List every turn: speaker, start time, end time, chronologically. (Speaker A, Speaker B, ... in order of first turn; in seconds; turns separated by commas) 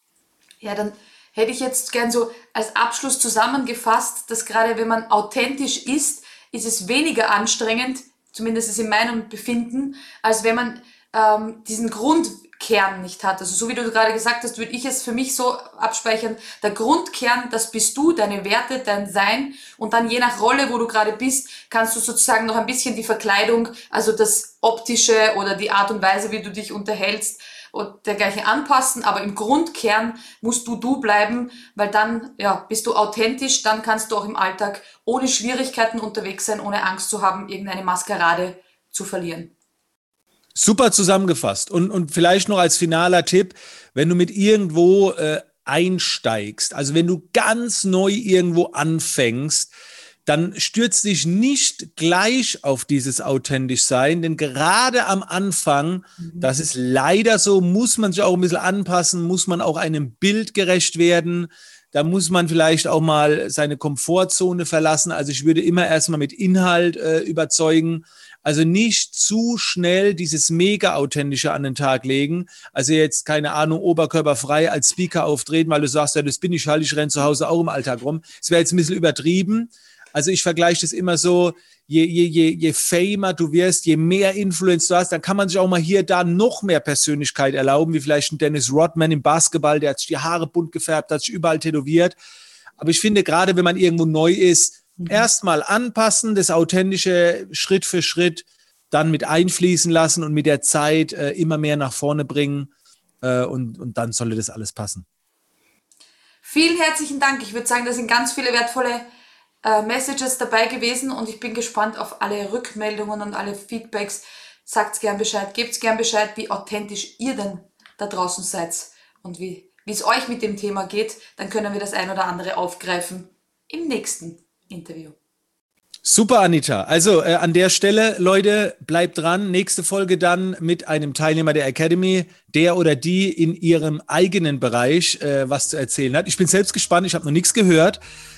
Speaker A: 0.6-39.5, Speaker B: 40.6-49.7, Speaker B: 50.3-92.2, Speaker B: 92.8-102.7, Speaker A: 95.0-95.2, Speaker B: 103.2-105.1, Speaker A: 106.4-109.1, Speaker A: 109.6-125.2, Speaker B: 126.0-138.0